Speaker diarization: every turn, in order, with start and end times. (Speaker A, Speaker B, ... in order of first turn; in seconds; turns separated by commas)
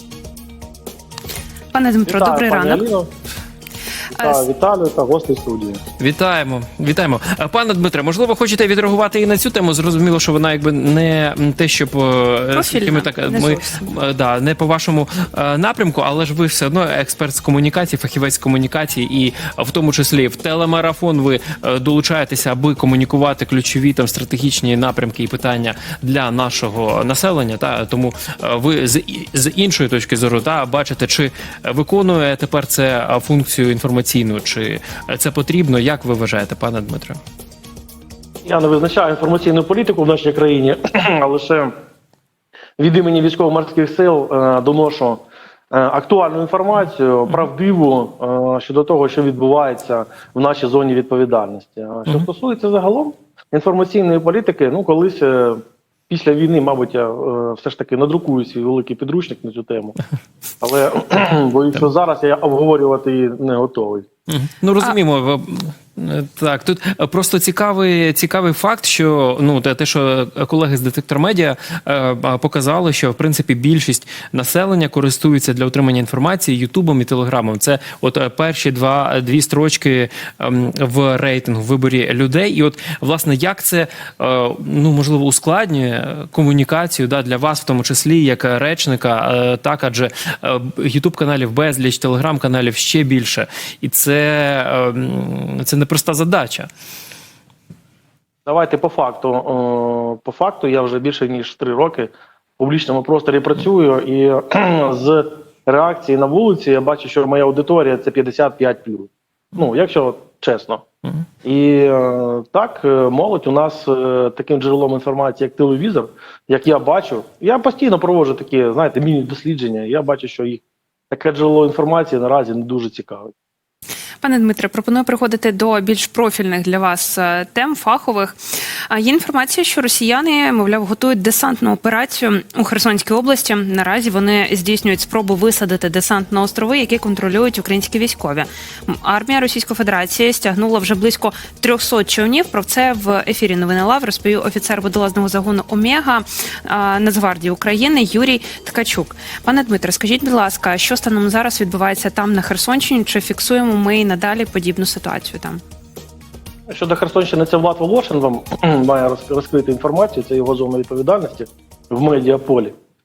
Speaker A: 1.7-2.8, Speaker B: 2.0-3.1, Speaker B: 4.1-5.8, Speaker A: 4.1-4.4, Speaker C: 6.0-37.2, Speaker A: 12.5-13.8, Speaker B: 38.4-41.7, Speaker B: 42.8-60.0, Speaker B: 60.6-64.0, Speaker C: 64.3-96.7, Speaker B: 98.5-110.8, Speaker B: 111.4-123.3, Speaker A: 124.2-128.4, Speaker A: 128.9-155.6, Speaker B: 156.7-162.7